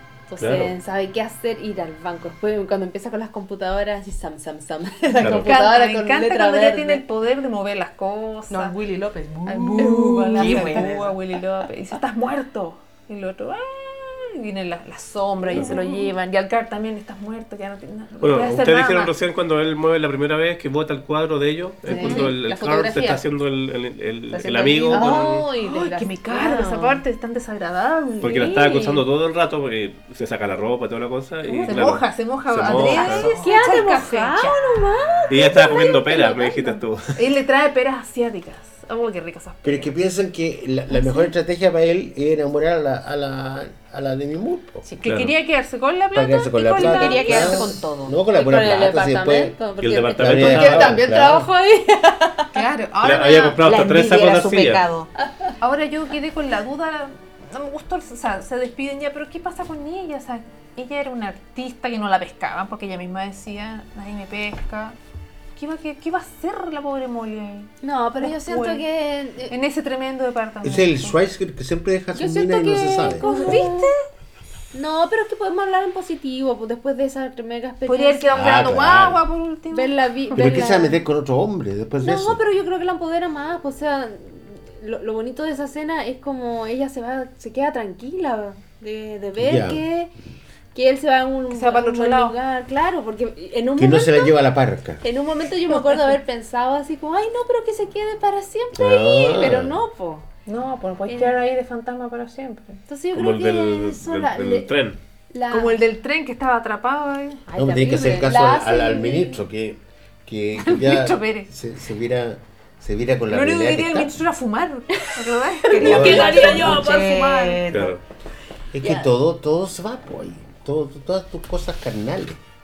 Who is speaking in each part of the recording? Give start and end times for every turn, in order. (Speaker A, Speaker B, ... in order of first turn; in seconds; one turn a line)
Speaker A: 0.3-7.0
Speaker B: 0.4-0.7
Speaker C: 5.1-8.8
Speaker B: 5.2-5.5
Speaker D: 8.5-11.2
Speaker C: 9.4-19.1
Speaker A: 9.8-10.9
Speaker A: 15.5-16.1
Speaker B: 18.2-25.4
Speaker C: 21.9-23.2
Speaker A: 21.9-22.3
Speaker D: 24.3-25.1
Speaker A: 24.9-27.0
Speaker C: 25.0-29.0
Speaker B: 28.2-33.3
Speaker A: 28.4-28.8
Speaker C: 31.4-34.5
Speaker A: 31.5-31.9
Speaker A: 32.7-36.8
Speaker D: 32.7-34.6
Speaker B: 35.3-37.2
Speaker C: 37.1-39.9
Speaker E: 39.6-44.9
Speaker C: 44.9-47.7
Speaker B: 45.0-45.3
Speaker E: 46.1-49.6
Speaker D: 46.8-48.1
Speaker A: 48.3-52.5
Speaker B: 49.8-51.0
Speaker E: 50.2-51.5
Speaker C: 50.4-51.5
Speaker C: 52.5-53.6
Speaker B: 53.0-54.8
Speaker D: 53.7-55.1
Speaker A: 55.2-55.5
Speaker C: 55.6-65.0
Speaker C: 65.5-68.8
Speaker A: 67.8-69.5
Speaker C: 69.5-71.2
Speaker E: 70.6-73.3
Speaker A: 72.1-73.9
Speaker C: 73.2-74.0
Speaker A: 74.7-78.5
Speaker C: 77.9-80.5
Speaker E: 78.3-79.2
Speaker A: 79.7-81.0
Speaker E: 80.3-82.4
Speaker A: 82.0-90.1
Speaker E: 89.4-89.8
Speaker A: 90.7-94.4
Speaker C: 91.5-92.4
Speaker E: 93.8-95.0
Speaker A: 95.0-100.3
Speaker C: 95.7-96.2
Speaker E: 98.8-99.7
Speaker C: 100.5-102.8
Speaker A: 101.1-101.4
Speaker A: 102.9-104.7
Speaker B: 103.1-105.0
Speaker A: 105.3-105.8
Speaker C: 105.5-107.4
Speaker A: 107.5-109.4
Speaker E: 107.5-114.1
Speaker C: 110.5-111.5
Speaker C: 113.3-117.6
Speaker A: 114.9-117.6
Speaker D: 115.7-118.0
Speaker E: 115.8-116.7
Speaker B: 117.7-118.0
Speaker E: 118.7-122.4
Speaker A: 118.8-119.1